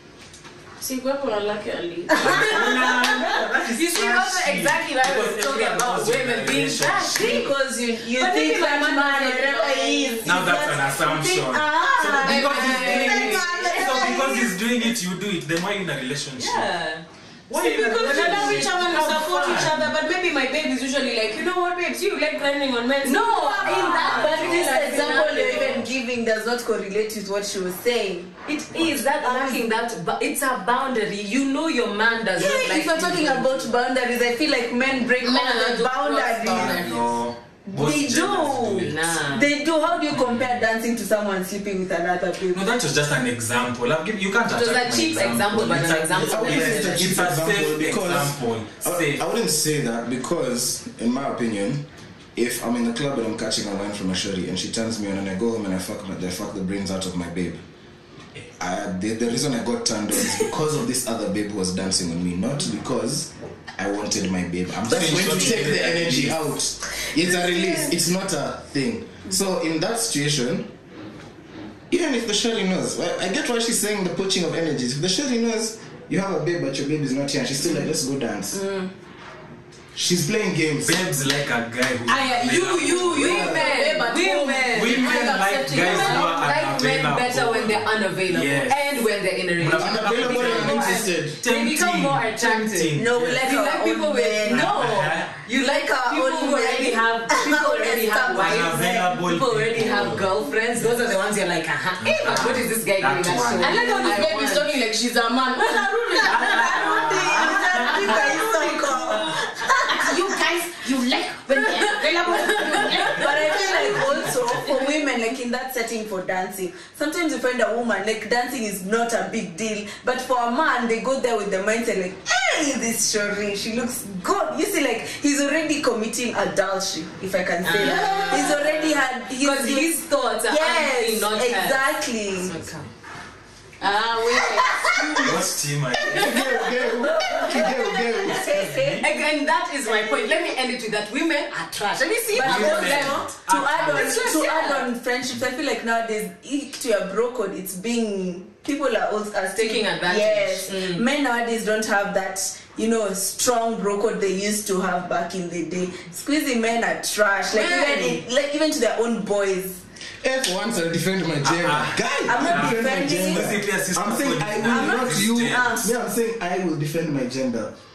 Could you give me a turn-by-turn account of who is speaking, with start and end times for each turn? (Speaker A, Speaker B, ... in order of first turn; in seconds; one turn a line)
Speaker A: 0.8-3.4
Speaker B: 2.1-7.5
Speaker C: 3.7-7.5
Speaker D: 7.1-14.5
Speaker A: 8.1-10.4
Speaker B: 10.2-16.7
Speaker A: 12.1-14.2
Speaker C: 12.4-13.9
Speaker C: 16.4-17.0
Speaker B: 17.5-19.9
Speaker A: 17.5-25.8
Speaker C: 17.9-18.7
Speaker C: 23.0-25.8
Speaker B: 23.6-24.9
Speaker D: 24.1-28.3
Speaker B: 25.4-25.9
Speaker C: 28.4-33.7
Speaker B: 28.7-29.1
Speaker D: 29.2-29.6
Speaker D: 32.4-36.8
Speaker A: 35.2-37.2
Speaker B: 36.5-39.2
Speaker D: 37.7-42.6
Speaker C: 38.8-39.5
Speaker B: 40.1-40.6
Speaker B: 42.5-49.2
Speaker C: 44.5-47.1
Speaker E: 46.2-51.8
Speaker E: 52.4-57.6
Speaker E: 58.6-70.7
Speaker B: 64.8-66.6
Speaker D: 64.9-65.7
Speaker D: 67.2-67.9
Speaker E: 71.9-78.6
Speaker D: 78.5-78.9
Speaker E: 79.9-81.0
Speaker B: 80.8-83.5
Speaker A: 82.0-86.3
Speaker C: 82.9-92.9
Speaker B: 84.7-88.9
Speaker B: 89.6-93.5
Speaker E: 89.7-91.4
Speaker D: 92.9-94.8
Speaker A: 93.4-94.5
Speaker C: 93.5-104.7
Speaker B: 94.5-95.3
Speaker D: 95.5-99.2
Speaker B: 98.3-101.0
Speaker B: 102.0-103.9
Speaker A: 103.6-106.9
Speaker C: 105.7-109.3
Speaker D: 106.2-110.2
Speaker B: 106.3-108.4
Speaker A: 108.0-114.4
Speaker C: 112.2-114.3
Speaker D: 113.1-129.9
Speaker C: 127.6-131.8
Speaker A: 127.7-128.7
Speaker D: 130.5-132.6
Speaker C: 132.4-132.9
Speaker A: 133.8-135.2
Speaker D: 134.9-135.4
Speaker B: 134.9-136.6
Speaker E: 136.0-138.7
Speaker D: 136.4-139.1
Speaker B: 138.3-139.0
Speaker C: 139.0-144.9
Speaker D: 139.8-140.4
Speaker B: 142.3-144.2
Speaker D: 142.3-159.8
Speaker C: 149.6-151.1
Speaker C: 157.5-158.2
Speaker E: 160.2-167.8
Speaker B: 161.4-165.8
Speaker D: 162.3-163.6
Speaker D: 164.7-165.9